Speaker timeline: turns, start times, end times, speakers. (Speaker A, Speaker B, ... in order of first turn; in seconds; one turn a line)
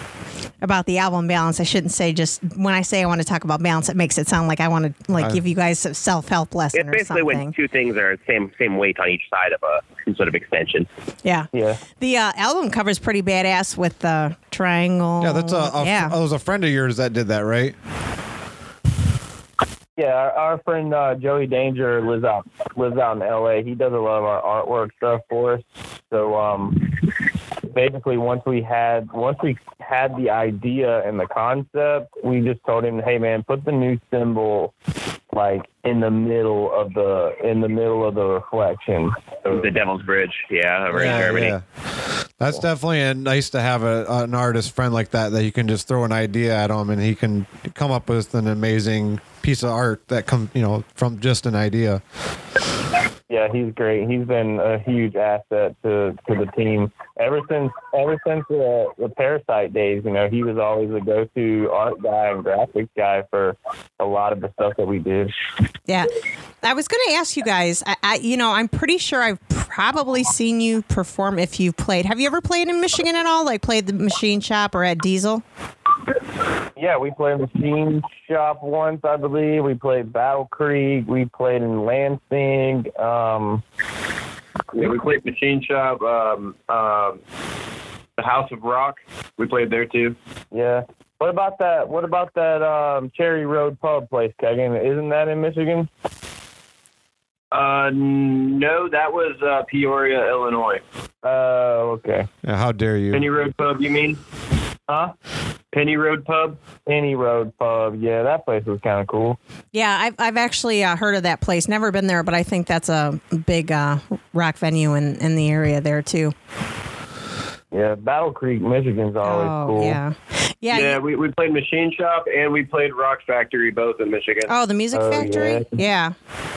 Speaker A: 0.6-7.5
Speaker B: 5.1-5.4
Speaker C: 6.7-10.9
Speaker A: 11.2-16.1
Speaker D: 11.5-11.8
Speaker B: 15.2-17.8
Speaker D: 20.0-27.0
Speaker D: 27.7-34.7
Speaker D: 35.3-39.7
Speaker C: 39.5-41.5
Speaker B: 40.9-41.6
Speaker B: 42.4-52.0
Speaker D: 53.3-65.3
Speaker A: 66.6-75.4
Speaker D: 76.8-83.6
Speaker E: 84.7-87.2
Speaker E: 88.2-90.2
Speaker D: 90.5-95.9
Speaker E: 97.5-100.8
Speaker D: 101.2-102.3
Speaker B: 102.4-103.3
Speaker E: 103.1-104.2
Speaker D: 104.9-105.1
Speaker E: 105.7-106.6
Speaker D: 106.8-109.4
Speaker A: 109.7-116.3
Speaker D: 117.7-120.0
Speaker A: 119.2-121.0
Speaker E: 120.7-124.5
Speaker A: 124.5-126.1
Speaker D: 124.9-125.7